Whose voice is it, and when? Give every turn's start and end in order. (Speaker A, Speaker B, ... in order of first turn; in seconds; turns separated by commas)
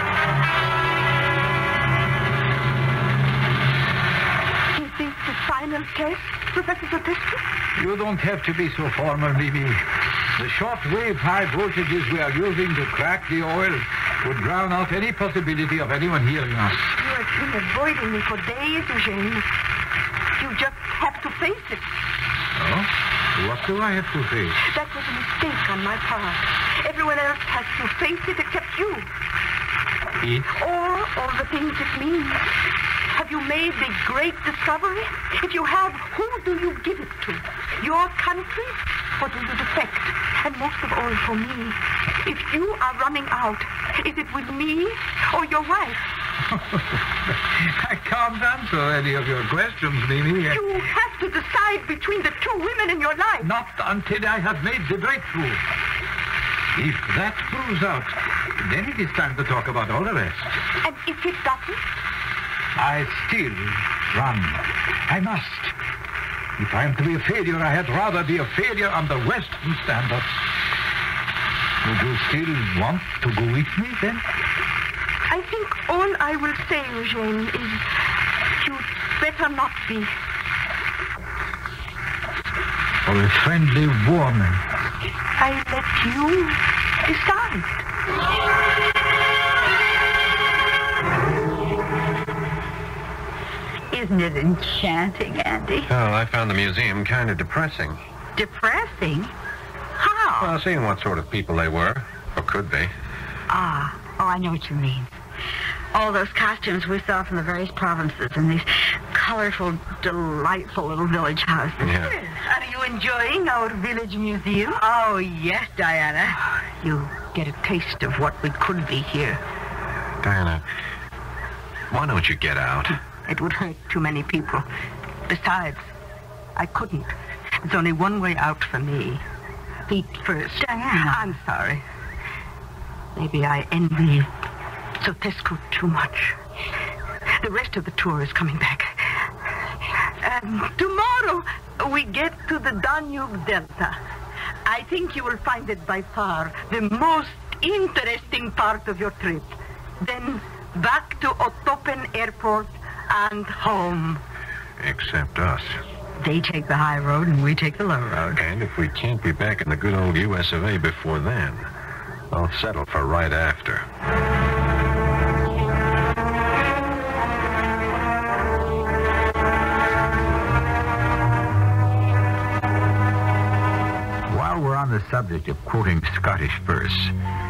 Speaker A: 4.7-7.4, Speaker B: 7.8-16.9, Speaker A: 16.9-19.5, Speaker A: 20.4-21.9, Speaker B: 22.6-24.6, Speaker A: 24.6-29.1, Speaker B: 30.2-30.5, Speaker A: 30.5-32.5, Speaker A: 33.1-46.0, Speaker B: 46.5-50.6, Speaker A: 50.5-53.5, Speaker B: 53.4-55.6, Speaker B: 56.8-60.6, Speaker A: 60.8-61.8, Speaker B: 62.8-65.8, Speaker B: 66.6-70.5, Speaker B: 71.8-74.2, Speaker A: 75.3-77.9, Speaker A: 78.5-80.1, Speaker B: 83.0-84.6, Speaker A: 85.4-87.8, Speaker C: 93.9-95.9, Speaker D: 95.9-98.0, Speaker C: 98.4-99.3, Speaker C: 100.0-100.5, Speaker D: 100.4-102.9, Speaker C: 103.5-105.2, Speaker C: 105.9-112.0, Speaker D: 111.8-112.2, Speaker A: 111.9-114.8, Speaker C: 114.7-116.4, Speaker A: 116.5-119.4, Speaker D: 120.2-120.6, Speaker D: 121.9-123.0, Speaker A: 123.3-124.7, Speaker A: 125.3-125.9, Speaker A: 126.6-129.2, Speaker A: 129.9-131.8, Speaker C: 130.6-131.2, Speaker A: 133.2-134.3, Speaker A: 135.0-136.4, Speaker A: 137.4-139.3, Speaker A: 140.1-144.0, Speaker A: 144.7-154.2, Speaker D: 154.8-155.8, Speaker C: 156.2-158.4, Speaker D: 158.3-161.7, Speaker D: 162.3-163.9, Speaker E: 174.3-177.2